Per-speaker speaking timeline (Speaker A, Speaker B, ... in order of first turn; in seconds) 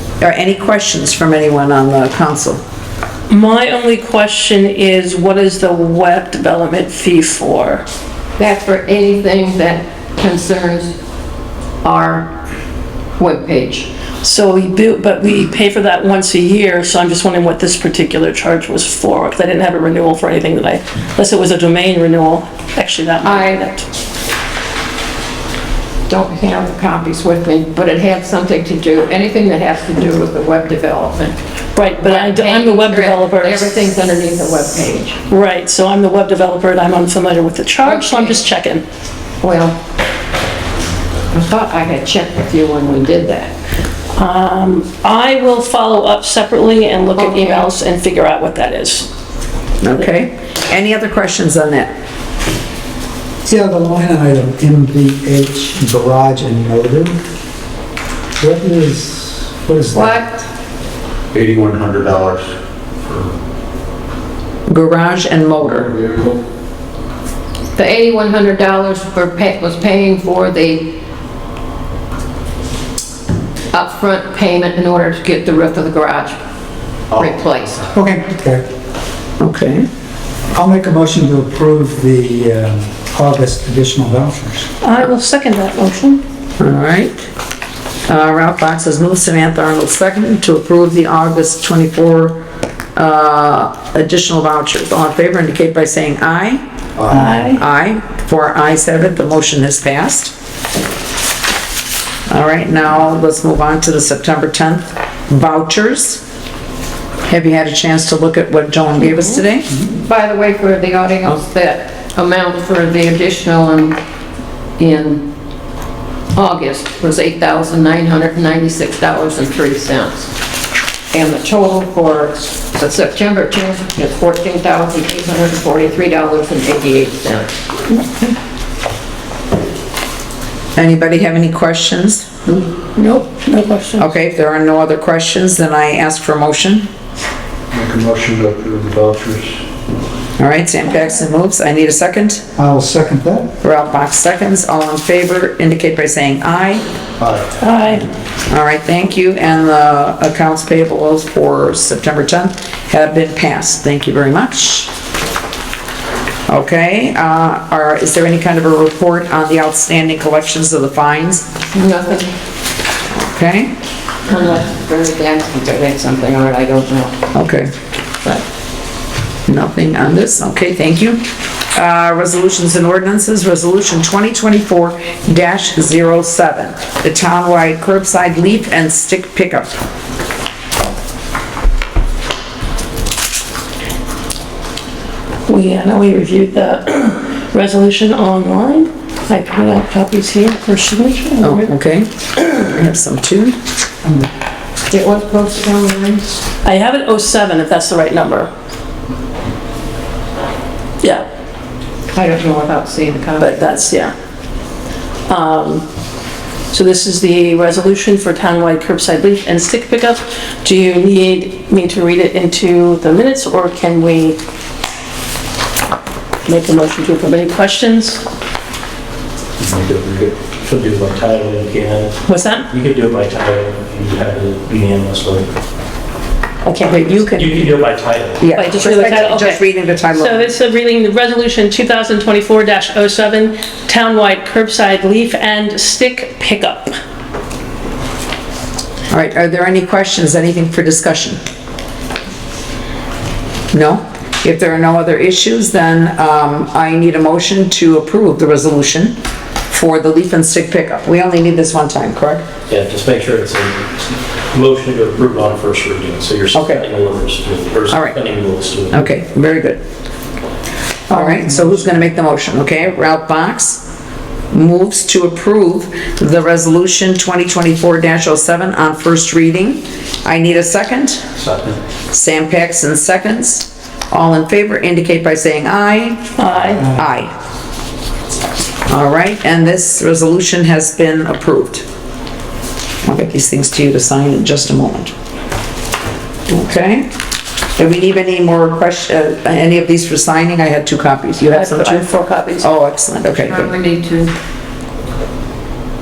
Speaker A: 0.2-2.6, 49.8-51.9, 64.7-65.9, 79.4-79.9, 86.6-87.3, 88.1-92.4, 92.9-96.6, 97.5-100.3, 102.3-106.2, 107.3-109.7, 130.8-132.6, 134.0-136.9, 140.4-142.4, 143.6-146.8, 148.5-154.9, 156.5-161.6, 163.1-163.8, 167.3-167.7, 169.4-179.7, 191.4-193.6, 226.8-227.6, 228.4-230.5, 239.1-241.4, 243.7-249.2, 249.7-252.4, 256.5-256.8, 257.9-258.2, 258.9-259.8, 261.1-263.9, 264.5-271.2, 272.1-277.3, 278.9-281.8, 283.0-285.1, 286.5-287.1, 287.8-292.1, 292.6-293.7
Speaker B: 3.3-7.8, 14.2-23.9, 31.7-33.9, 35.3-38.8, 44.1-49.1, 84.8-86.2, 97.1-97.6, 132.9-134.1, 147.6-148.1, 185.5-191.7, 196.6-198.5, 203.4-204.1, 205.3-205.8, 206.7-214.4, 216.4-218.2, 222.3-222.7, 226.7-227.2, 228.5-236.9, 276.4-276.8, 291.5-292.7
Speaker C: 8.4-10.9, 11.8-12.4, 13.2-13.9, 23.2-23.7, 26.1-31.4, 31.9-35.2, 37.8-38.4, 39.4-39.8, 41.3-43.5, 47.2-47.7, 59.9-60.4, 67.8-71.0, 73.7-76.4, 77.1-77.9, 109.9-114.0, 114.8-115.3, 116.3-120.3, 121.1-127.5, 161.7-162.3, 164.3-167.3, 194.9-196.4, 202.1-203.7, 293.4-294.3
Speaker D: 53.4-57.2, 58.4-60.3, 77.9-78.7, 80.5-84.7, 97.0-97.5, 142.6-143.5, 261.1-261.9
Speaker E: 61.3-62.5, 63.0-63.3, 65.6-66.4, 137.7-139.6, 219.6-220.3
Speaker F: 220.5-222.2, 222.7-225.5, 227.1-229.2, 252.7-253.8, 254.5-259.0